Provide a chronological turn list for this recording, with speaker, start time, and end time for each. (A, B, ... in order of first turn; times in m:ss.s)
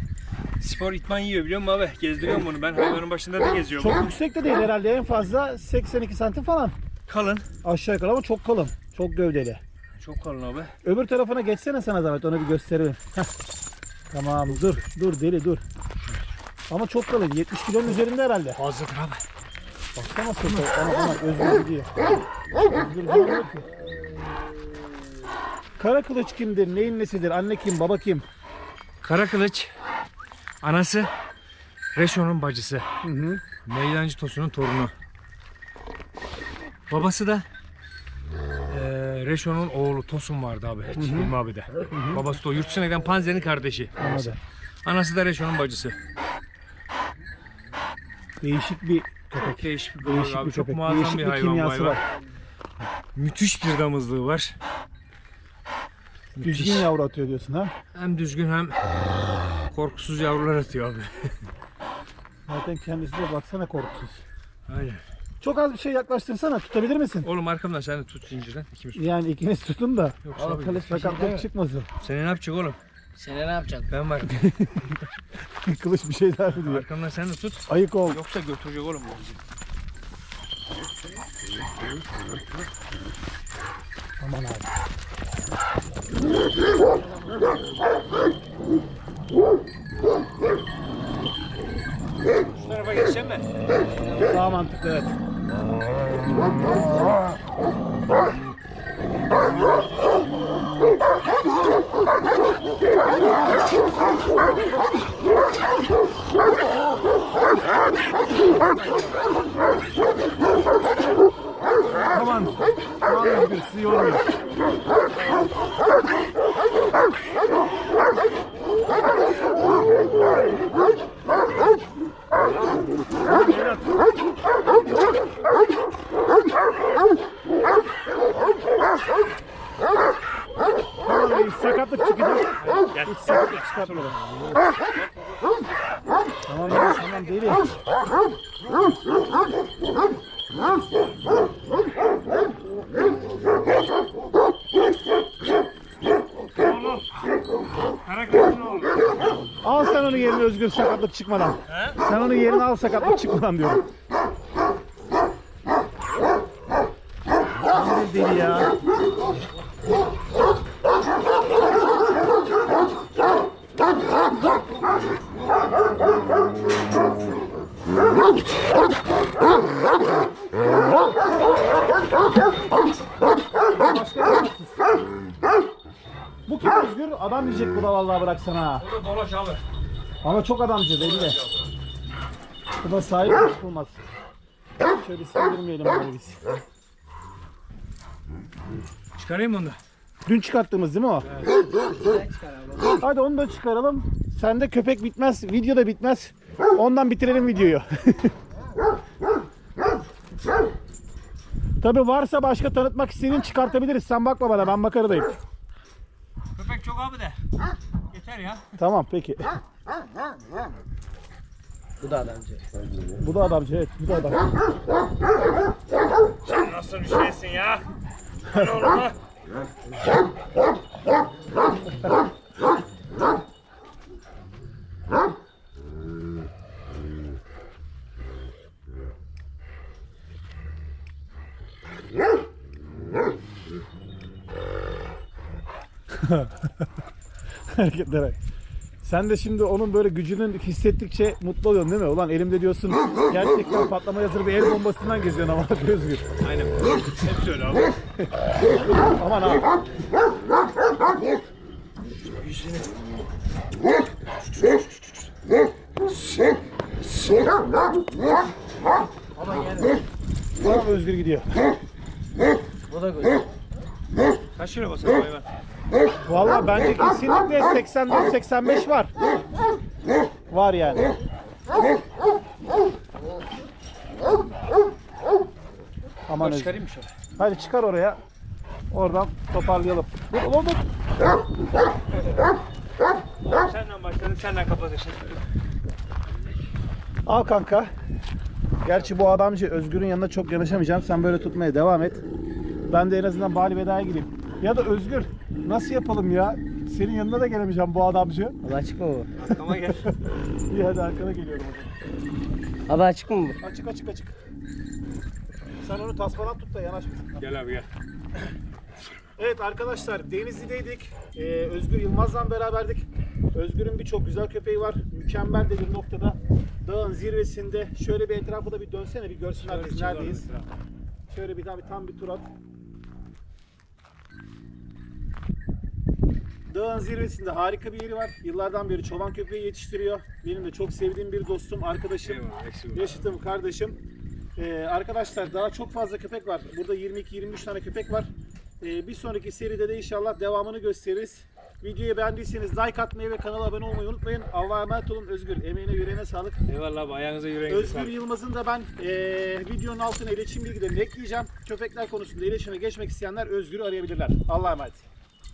0:00.6-0:04.1 A
0:03.8-0:06.8 B
0:07.1-0:07.5 A
0:07.6-0:09.6 B
0:10.0-0:10.7 A
0:10.8-0:13.3 B
0:14.1-0:15.6 B
0:16.7-0:18.6 B
0:18.5-0:19.2 A
0:19.9-0:22.1 B
0:22.6-0:23.6 B
0:25.8-0:28.2 B
0:29.0-0:29.7 A
0:30.6-0:31.1 A
0:31.9-0:32.9 A
0:33.0-0:33.4 B
0:33.6-0:34.9 A
0:36.9-0:37.4 A
0:38.7-0:44.3 A
0:41.0-0:41.3 B
0:41.9-0:42.2 B
0:44.0-0:44.4 B
0:44.8-0:46.0 A
0:48.4-0:52.0 B
0:49.3-0:52.0 A
0:53.1-0:54.6 A
0:56.3-0:56.9 A
0:56.4-0:57.7 B
0:57.9-0:58.8 A
0:59.7-1:01.4 A
1:02.5-1:04.2 B
1:04.7-1:05.0 A
1:05.4-1:07.3 B
1:07.2-1:09.1 A
1:08.9-1:10.2 B
1:10.2-1:11.2 A
1:10.4-1:11.5 C
1:10.8-1:11.9 B
1:12.0-1:12.8 A
1:13.2-1:13.9 C
1:13.9-1:14.6 A
1:14.3-1:15.0 B
1:15.6-1:16.9 B
1:16.5-1:19.4 A
1:17.7-1:18.2 B
1:24.2-1:24.7 B
1:32.5-1:33.4 A
1:34.2-1:35.1 B
1:52.1-1:54.3 B
2:03.2-2:04.0 B
2:11.0-2:14.1 B
2:12.6-2:15.4 A
2:16.5-2:17.7 B
2:16.6-2:17.1 A
2:26.6-2:27.0 A
2:28.0-2:29.0 A
2:29.6-2:33.9 B
2:31.7-2:32.0 A
2:37.7-2:38.7 B
2:53.7-2:54.9 B
2:56.4-2:58.8 B
2:58.8-2:59.6 A
3:00.2-3:01.4 B
3:01.0-3:01.7 A
3:02.8-3:04.0 B
3:04.8-3:06.4 B
3:09.2-3:09.8 A
3:10.2-3:11.3 B
3:11.2-3:11.5 A
3:12.0-3:13.0 C
3:13.0-3:18.3 B
3:21.8-3:25.4 B
3:26.6-3:27.4 A
3:28.1-3:28.8 A
3:28.8-3:29.6 B
3:32.0-3:32.6 C
3:33.2-3:34.5 B
3:36.4-3:37.8 A
3:38.4-3:39.2 A
3:56.1-3:56.9 B
3:57.7-3:58.4 B
3:59.0-4:06.2 B
4:06.4-4:08.0 A
4:09.0-4:09.7 B
4:12.3-4:12.8 A
4:19.4-4:20.0 C
4:20.6-4:21.6 B
4:22.9-4:23.4 C
4:24.6-4:25.4 A
4:26.2-4:29.1 B
4:30.5-4:31.1 B
4:36.3-4:36.8 B
4:36.4-4:37.1 A
4:37.4-4:38.2 B
4:38.9-4:40.8 B
4:43.4-4:45.4 A
4:47.2-4:47.9 B
4:48.8-4:52.2 B
4:52.9-4:58.6 B
4:58.6-4:59.3 C
4:59.4-5:00.1 A
4:59.6-5:00.1 B
5:00.7-5:01.9 B
5:02.9-5:03.6 C
5:03.6-5:04.3 B
5:05.8-5:07.4 B
5:07.4-5:07.9 A
5:09.4-5:20.5 B
5:19.6-5:20.7 A
5:21.3-5:22.5 B
5:26.7-5:32.4 B
5:32.2-5:33.2 A
5:32.9-5:34.0 B
5:34.6-5:46.6 B
5:46.7-5:48.1 A
5:47.7-5:55.0 B